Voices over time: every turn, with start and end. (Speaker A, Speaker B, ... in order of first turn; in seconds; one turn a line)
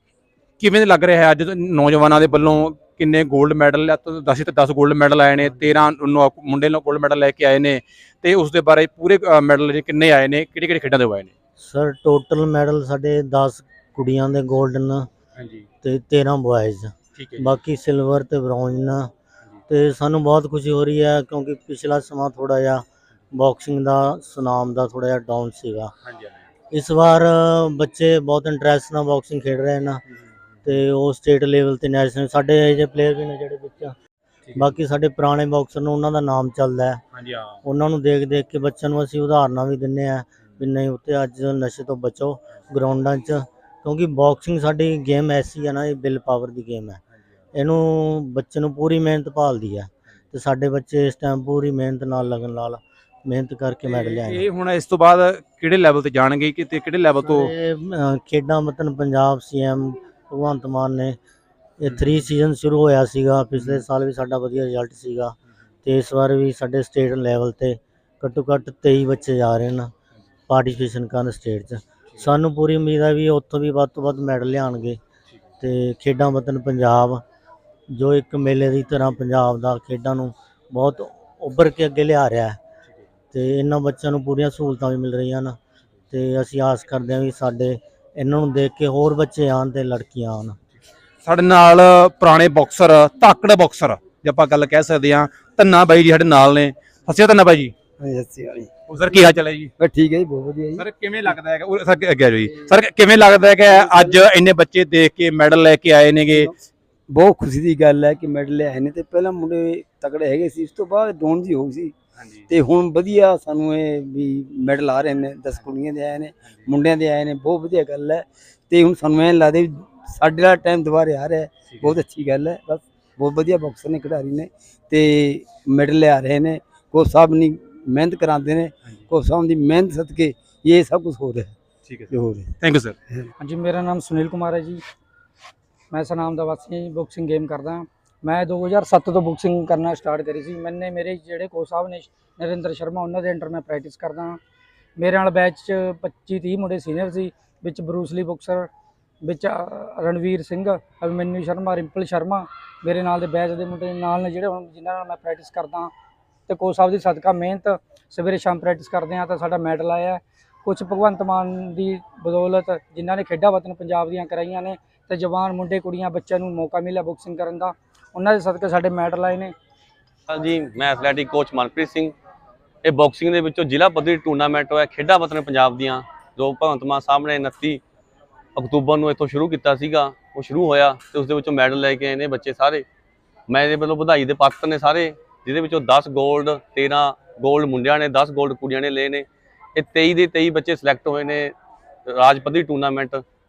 Speaker A: 0.6-11.3
Speaker B: 11.6-15.1
Speaker A: 15.4-15.6
Speaker B: 15.8-19.1
Speaker A: 17.1-17.5
Speaker B: 19.7-25.9
Speaker A: 26.0-26.4
Speaker B: 26.7-30.0
Speaker B: 30.6-34.0
Speaker B: 34.5-37.0
Speaker A: 37.1-37.6
Speaker B: 37.6-47.0
Speaker B: 47.5-54.5
Speaker A: 53.9-57.5
Speaker B: 57.2-61.2
Speaker B: 61.8-69.9
Speaker B: 70.5-75.0
Speaker B: 75.6-77.2
Speaker B: 77.9-82.6
Speaker B: 83.3-85.6
Speaker B: 86.1-90.6
Speaker A: 91.2-97.7
Speaker C: 98.0-100.8
Speaker A: 98.9-99.7
Speaker A: 100.8-106.5
Speaker C: 103.7-104.2
Speaker C: 107.1-111.9
Speaker A: 112.2-112.5
Speaker C: 112.5-131.5
Speaker A: 121.7-122.0
Speaker A: 131.8-132.9
Speaker C: 132.1-132.5
Speaker D: 133.4-134.8
Speaker D: 135.9-144.4
Speaker D: 145.0-148.7
Speaker D: 149.2-155.9
Speaker D: 156.5-169.5
Speaker E: 170.3-172.1
Speaker E: 172.8-177.8
Speaker E: 178.6-182.8
Speaker E: 183.5-191.5
Speaker E: 192.1-193.2